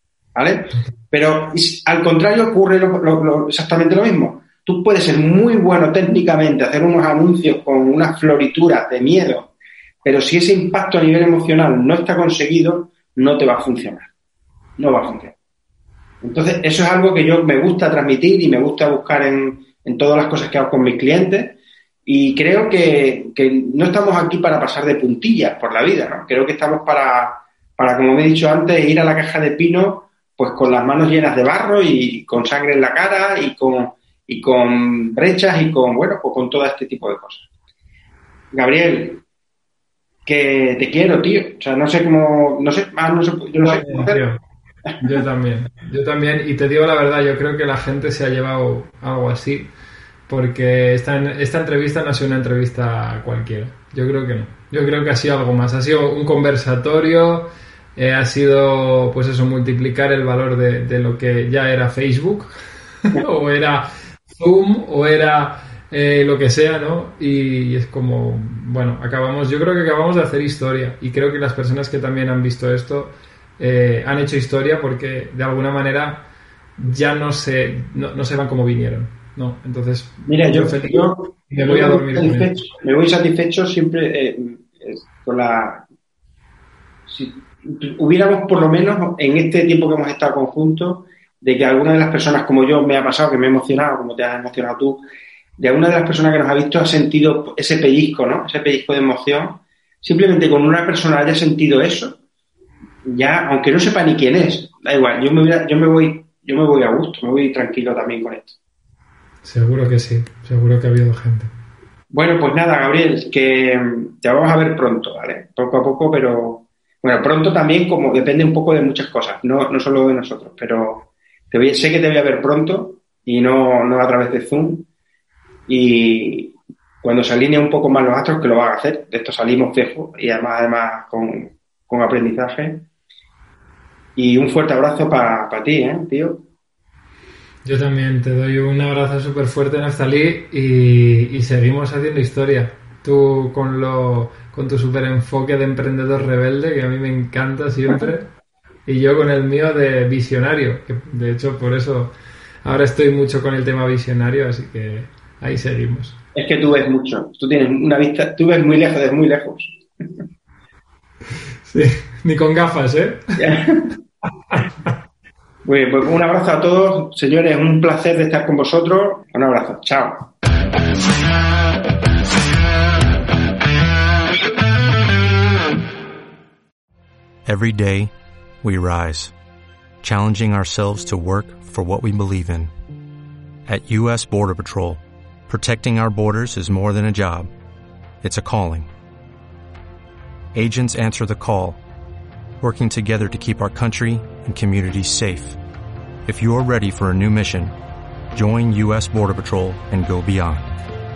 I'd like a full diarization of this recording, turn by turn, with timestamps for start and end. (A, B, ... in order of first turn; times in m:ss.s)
0:00.3-0:09.5 A
0:10.0-0:14.1 A
0:14.8-0:15.3 A
0:16.2-0:37.5 A
0:38.5-0:39.2 A
0:40.2-0:44.2 A
0:43.6-0:44.4 B
0:45.0-0:49.7 B
0:50.3-1:02.5 B
1:03.0-1:16.2 B
1:16.8-1:22.6 B
1:20.2-1:25.8 A
1:27.1-1:35.0 A
1:35.6-1:42.2 A
1:43.0-1:48.6 A
1:49.4-1:51.5 B
1:52.1-2:04.9 A
2:05.7-2:12.8 A
2:14.2-2:16.4 A
2:17.6-2:28.3 B
2:28.9-2:32.1 B
2:32.6-2:36.2 B
2:36.3-2:40.2 A
2:41.7-2:43.4 B
2:43.4-2:43.9 A
2:45.6-2:50.3 A
2:57.4-2:59.3 C
3:00.0-3:02.7 C
3:03.6-3:07.5 C
3:08.2-3:08.9 C
3:10.5-3:11.8 C
3:12.6-3:15.6 C
3:16.2-3:17.7 C
3:18.3-3:20.7 C